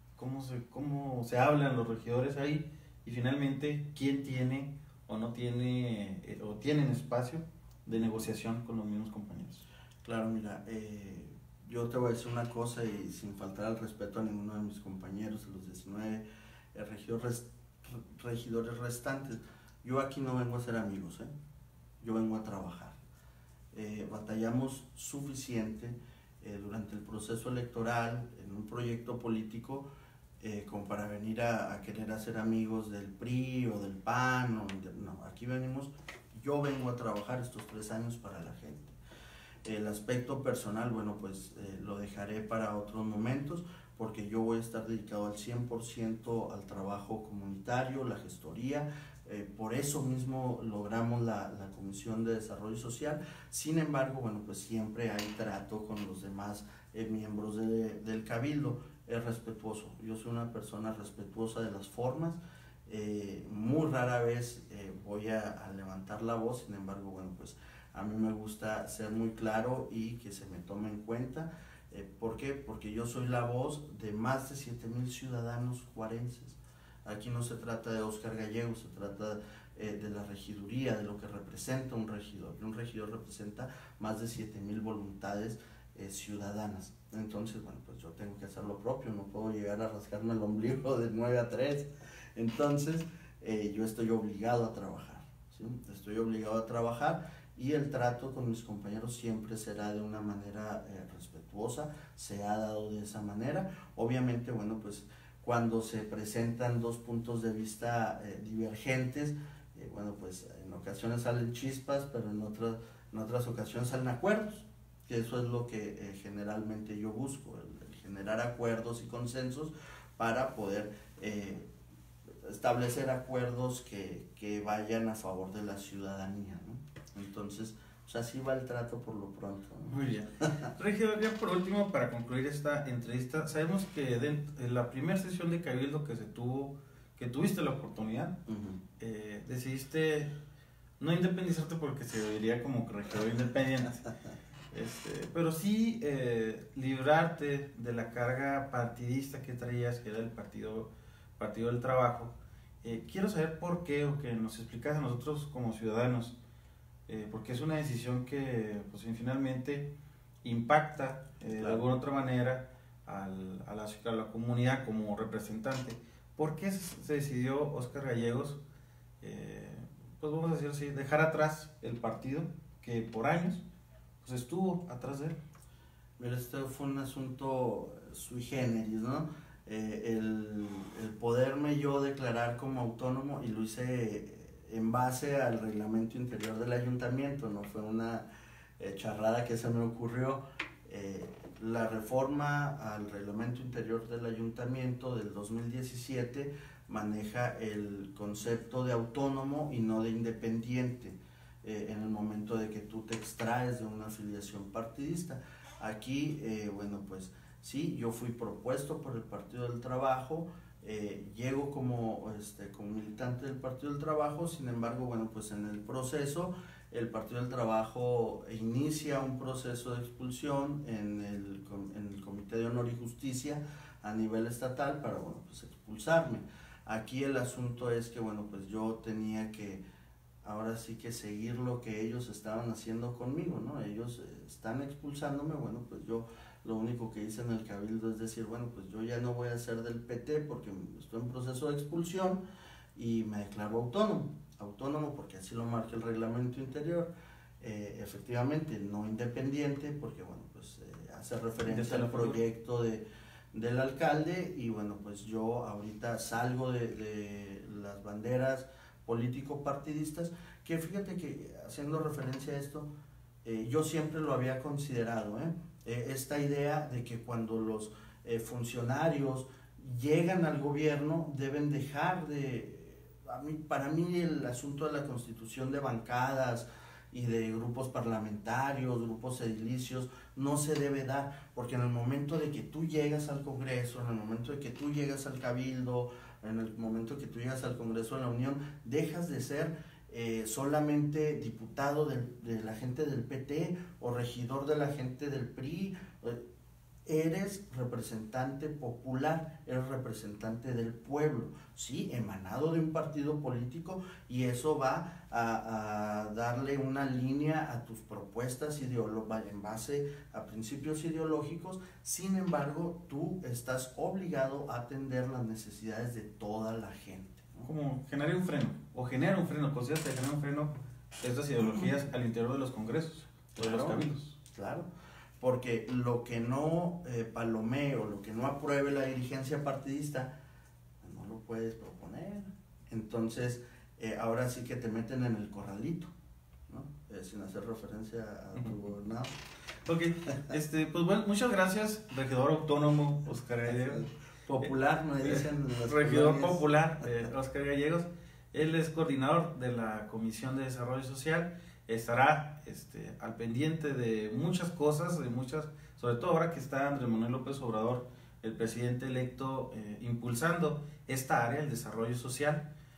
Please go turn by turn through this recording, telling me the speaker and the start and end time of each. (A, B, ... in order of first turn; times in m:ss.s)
0:00.2-0:09.6 A
0:10.0-0:21.3 B
0:22.0-0:23.0 B
0:23.7-0:29.9 B
0:30.4-0:39.0 B
0:39.6-2:01.7 B
2:02.4-2:10.7 B
2:09.9-2:18.4 A
2:18.5-2:18.8 B
2:19.0-2:20.3 A
2:21.0-2:24.1 A
2:24.7-2:36.4 A
2:37.1-2:39.9 A
2:40.4-2:48.6 A
2:41.6-2:41.8 B
2:49.2-2:53.6 A
2:54.2-2:55.4 A
2:56.2-3:08.2 B
3:08.8-3:49.8 B
3:50.4-4:02.4 B
4:02.9-4:22.9 B
4:11.6-4:12.4 A
4:23.4-4:56.4 B
4:57.0-5:17.7 B
5:17.6-5:20.7 A
5:21.2-5:24.4 A
5:23.6-5:24.9 B
5:25.4-5:30.3 B
5:31.0-5:36.1 B
5:36.7-5:39.4 B
5:39.8-5:44.0 A
5:43.6-5:46.6 B
5:45.2-6:02.7 A